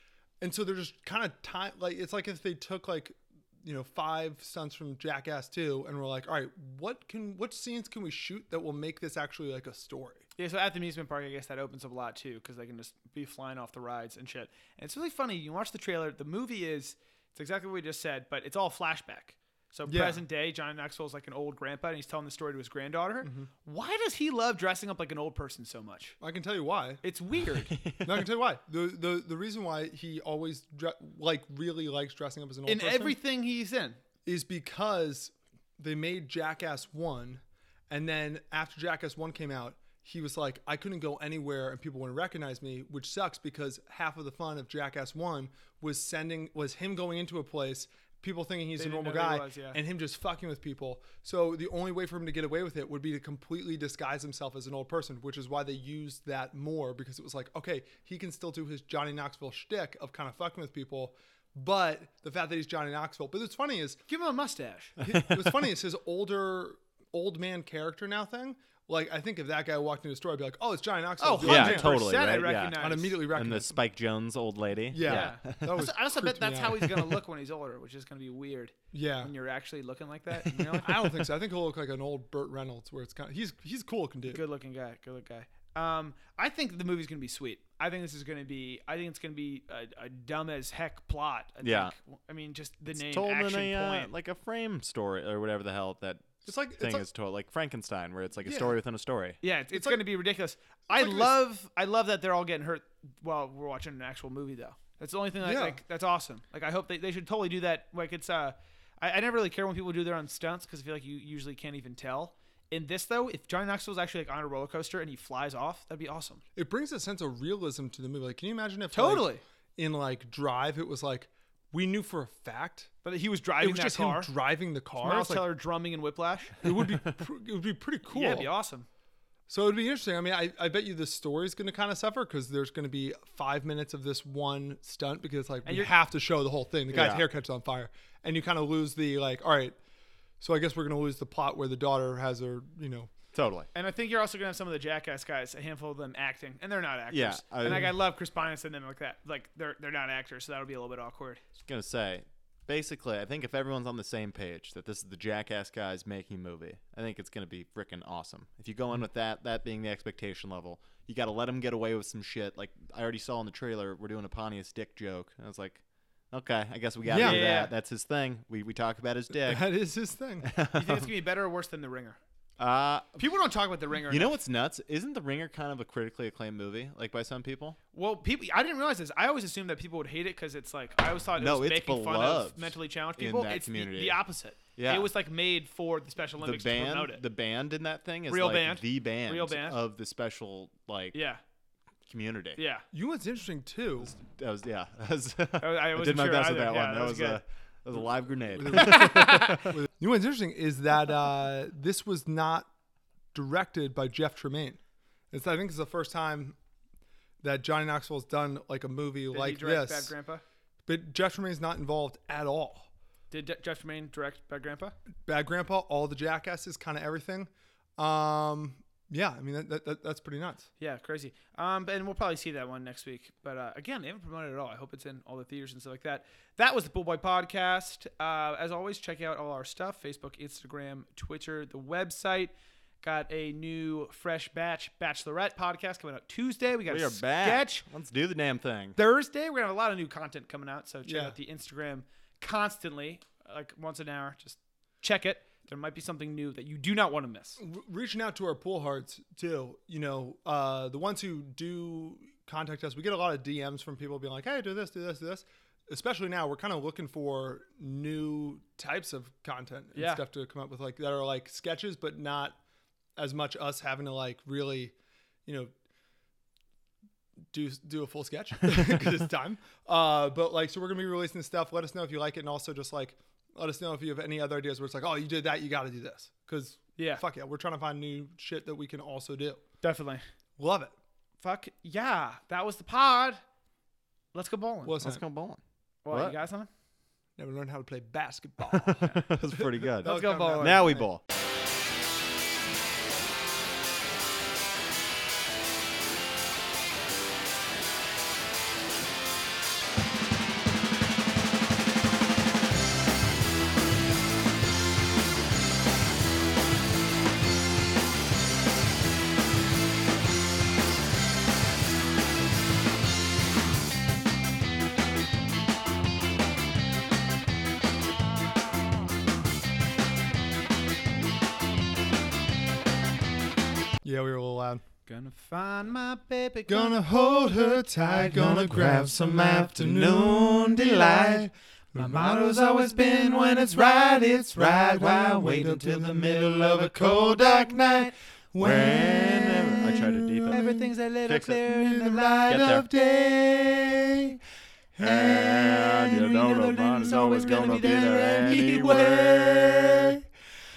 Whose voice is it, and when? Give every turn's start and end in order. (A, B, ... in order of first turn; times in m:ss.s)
0:00.4-0:10.3 A
0:10.4-0:26.2 B
0:19.9-0:20.2 A
0:23.2-0:23.5 A
0:26.2-0:27.0 A
0:27.0-0:27.8 B
0:27.7-0:28.3 C
0:28.0-0:33.2 A
0:32.7-0:34.0 B
0:34.2-1:04.0 A
0:48.8-0:49.8 B
1:04.1-1:05.0 B
1:05.0-1:12.2 A
1:05.0-1:05.5 C
1:11.2-1:13.2 B
1:11.4-1:15.9 C
1:12.7-1:13.8 A
1:14.9-1:17.0 A
1:15.0-1:21.0 B
1:18.9-1:19.3 A
1:20.5-1:20.9 C
1:20.8-1:24.4 A
1:24.3-1:34.1 B
1:31.6-1:31.9 C
1:33.0-1:39.4 C
1:36.4-1:37.1 A
1:38.4-1:38.8 A
1:39.4-1:56.4 B
1:39.7-1:40.0 A
1:40.9-1:41.4 A
1:45.4-1:45.8 A
1:56.6-2:02.9 A
1:58.9-1:59.4 B
2:03.0-2:04.3 B
2:03.6-2:05.5 A
2:05.0-2:06.6 B
2:06.6-2:08.5 A
2:08.1-2:08.9 B
2:09.5-2:19.8 A
2:15.7-2:15.9 B
2:16.9-2:17.3 C
2:20.4-2:23.1 A
2:23.3-2:23.7 C
2:23.7-2:31.4 B
2:27.1-2:27.9 C
2:31.6-2:49.7 C
2:47.0-2:47.4 A
2:47.2-2:47.7 B
2:49.4-2:50.5 A
2:50.4-2:51.1 C
2:50.7-2:52.2 B
2:52.6-2:53.2 C
2:53.2-2:54.4 B
2:54.1-2:57.8 C
2:57.9-3:07.2 B
3:01.4-3:04.2 C
3:04.8-3:05.1 C
3:06.4-3:11.2 C
3:08.3-3:09.8 B
3:11.1-3:11.4 B
3:12.1-3:12.6 C
3:12.6-3:12.8 B
3:12.9-3:14.1 A
3:14.0-3:19.8 C
3:15.6-3:17.4 B
3:18.6-3:22.7 A
3:18.7-3:19.7 B
3:23.3-3:24.8 A
3:25.3-3:26.6 A
3:27.4-3:30.1 A
3:29.3-3:30.4 B
3:30.9-3:32.9 A
3:33.3-3:35.0 B
3:35.3-3:40.7 A
3:40.8-3:52.5 B
3:53.0-3:57.8 B
3:56.9-3:59.0 C
3:59.0-4:07.6 B
4:01.0-4:01.4 A
4:07.6-4:22.6 A
4:19.9-4:20.2 B
4:23.2-4:24.9 A
4:25.4-4:25.7 A
4:27.5-4:39.6 A
4:37.0-4:37.2 B
4:39.8-4:40.2 B
4:40.6-4:40.9 A
4:41.4-4:43.4 B
4:44.3-4:45.0 B
4:44.8-4:45.2 A
4:45.0-4:46.4 C
4:46.0-4:46.7 B
4:47.4-4:51.1 A
4:48.7-4:51.2 C
4:50.0-4:50.9 B
5:24.0-5:24.8 A
5:25.1-5:27.0 B
5:26.7-5:38.0 A
5:28.2-5:41.7 C
5:38.5-5:40.9 A
5:40.5-5:42.6 B
5:41.8-5:44.4 A
5:42.5-5:42.9 C
5:45.0-5:50.2 C
5:45.0-5:45.8 A
5:45.7-5:50.1 B
5:49.4-5:49.8 A